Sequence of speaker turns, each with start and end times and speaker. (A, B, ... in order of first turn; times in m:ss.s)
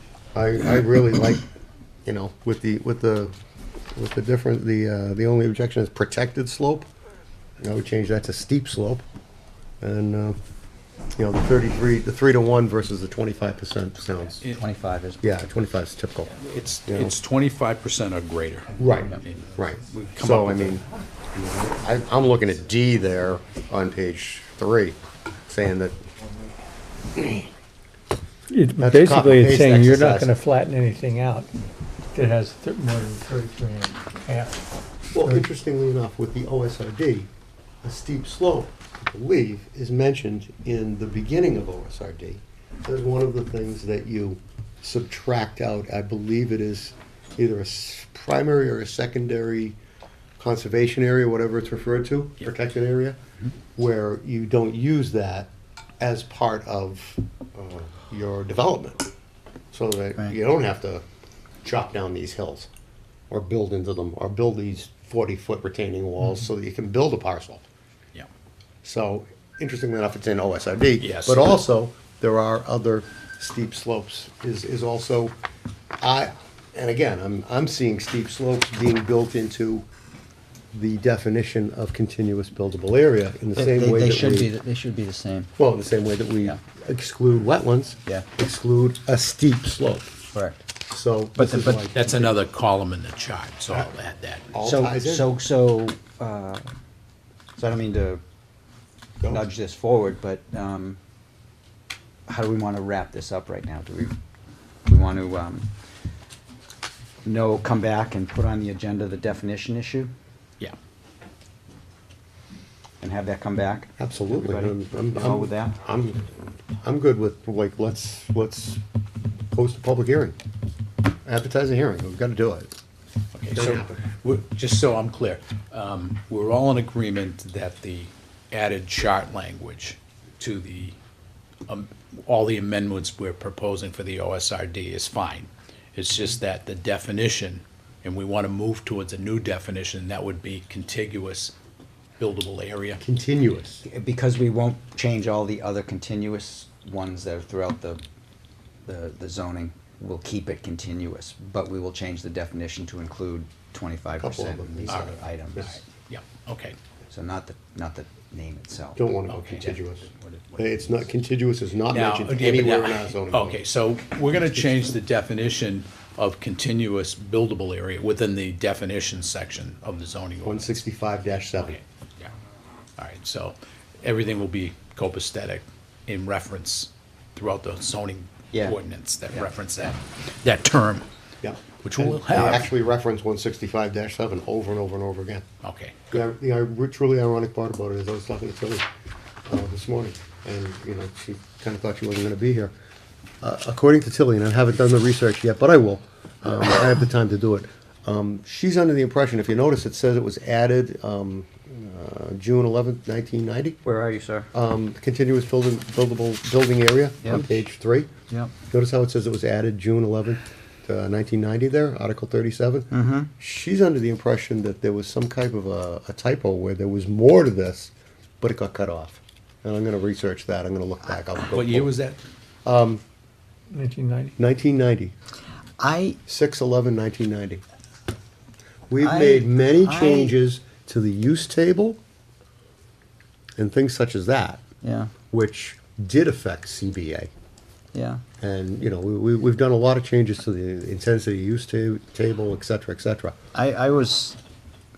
0:00.3-0:01.5 A
0:02.0-0:03.3 A
0:03.9-0:06.9 A
0:07.6-0:09.0 A
0:09.8-0:10.4 A
0:11.2-0:14.4 A
0:14.4-0:14.7 B
0:14.6-0:15.2 C
0:15.2-0:16.3 A
0:16.3-0:20.8 B
0:16.8-0:17.2 A
0:18.8-0:26.0 A
0:28.5-0:31.5 D
0:28.8-0:30.3 A
0:32.1-0:34.6 D
0:35.1-0:37.3 A
0:37.8-0:49.8 A
0:50.4-0:53.2 A
0:53.8-0:59.0 A
0:59.7-1:01.0 A
1:01.6-1:02.7 A
1:03.3-1:07.6 A
1:08.8-1:15.4 A
1:11.0-1:11.6 B
1:16.0-1:19.9 A
1:20.7-1:24.5 A
1:23.6-1:25.5 C
1:25.6-1:30.2 A
1:30.3-1:30.6 C
1:30.9-1:32.4 A
1:31.4-1:31.9 C
1:31.9-1:34.5 B
1:34.5-1:35.3 A
1:34.6-1:36.7 C
1:37.6-1:38.2 C
1:39.2-1:39.4 A
1:39.3-1:41.0 C
1:42.3-1:44.2 C
1:44.9-1:45.7 C
1:47.2-1:50.1 C
1:53.0-1:55.8 C
1:54.0-1:58.8 A
1:59.5-2:00.4 A
2:01.2-2:02.7 A
2:03.4-2:11.0 B
2:03.5-2:04.0 A
2:11.7-2:21.6 B
2:22.2-2:23.0 B
2:23.0-2:23.8 A
2:23.8-2:28.0 C
2:28.9-2:35.8 C
2:34.2-2:35.8 A
2:34.9-2:36.8 B
2:37.1-2:39.0 C
2:39.0-2:43.6 A
2:39.3-2:41.0 B
2:41.9-2:52.3 B
2:50.4-2:51.8 A
2:53.0-3:01.1 B
2:58.5-2:58.8 C
3:01.4-3:05.4 A
3:01.8-3:02.7 B
3:05.6-3:06.0 B
3:06.1-3:08.9 A
3:09.5-3:12.7 A
3:13.4-3:23.8 A
3:23.8-3:24.5 C
3:24.5-3:28.1 A
3:27.2-3:27.6 C
3:28.7-3:41.9 A
3:32.9-3:33.3 C
3:41.5-3:42.2 B
3:42.6-3:43.0 A
3:43.7-3:44.4 D
3:44.4-3:45.1 A
3:45.8-3:46.2 C
3:46.3-3:47.6 A
3:48.9-3:52.0 A
3:49.0-3:50.4 C
3:53.6-3:54.6 A
3:54.8-3:55.1 C
3:55.3-3:57.3 A
3:57.9-3:58.2 C
3:58.4-4:03.4 A
4:03.5-4:04.4 C